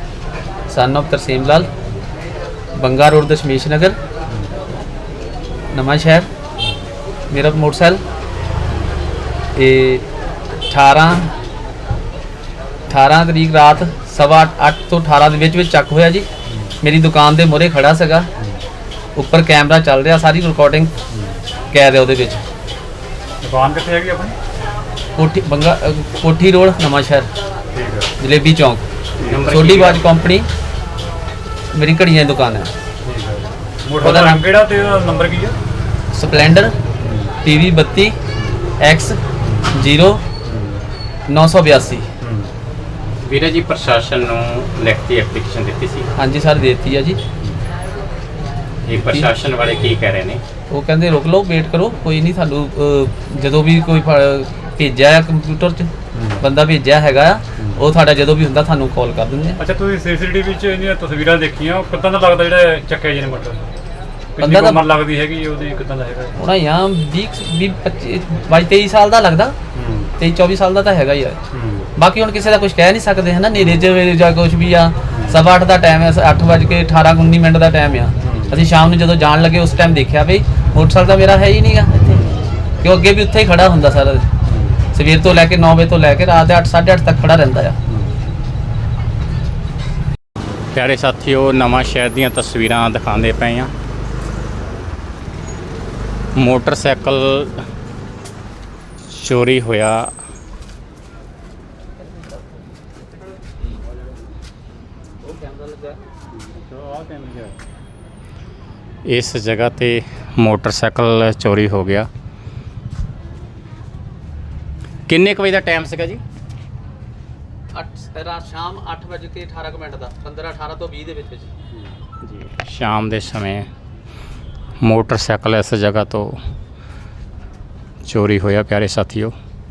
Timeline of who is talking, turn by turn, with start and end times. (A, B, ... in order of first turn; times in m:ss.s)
0:00.7-0:01.7 A
0:02.8-0:04.0 A
0:05.7-0:06.3 A
0:07.3-0:08.0 A
0:09.6-0:10.0 A
0:10.7-0:11.3 A
0:12.9-0:16.3 A
0:16.8-0:18.3 A
0:19.2-0:20.9 A
0:21.1-0:21.4 B
0:21.7-0:22.4 A
0:23.4-0:24.4 B
0:25.2-0:27.3 A
0:27.7-0:28.1 B
0:28.2-0:28.8 A
0:29.2-0:30.1 C
0:29.5-0:30.5 A
0:31.7-0:32.7 A
0:33.0-0:35.6 B
0:34.0-0:34.4 A
0:36.1-0:36.8 A
0:37.0-0:37.3 B
0:37.4-0:38.1 A
0:38.8-0:39.2 A
0:39.7-0:40.2 A
0:40.5-0:40.8 B
0:41.3-0:42.1 A
0:42.2-0:42.5 B
0:43.2-0:46.1 C
0:46.2-0:47.2 A
0:48.8-0:50.4 C
0:49.0-0:49.3 A
0:50.7-0:59.6 A
0:56.1-0:56.4 B
0:59.6-1:03.7 B
1:04.4-1:06.4 B
1:04.4-1:04.8 A
1:06.4-1:09.6 A
1:09.7-1:10.1 B
1:10.2-1:11.4 A
1:11.5-1:11.9 B
1:12.0-1:22.2 A
1:15.1-1:15.4 B
1:18.2-1:18.6 B
1:22.1-1:22.5 B
1:22.8-1:24.2 A
1:24.5-1:24.8 B
1:24.9-1:27.8 A
1:30.7-1:33.7 C
1:36.3-1:37.6 C
1:39.0-1:40.1 C
1:45.2-1:46.0 A
1:46.5-1:47.6 B
1:49.0-1:52.1 C
1:55.1-1:56.2 C
1:57.8-2:01.5 A
2:02.2-2:03.7 C
2:04.8-2:06.4 C
2:08.0-2:09.3 C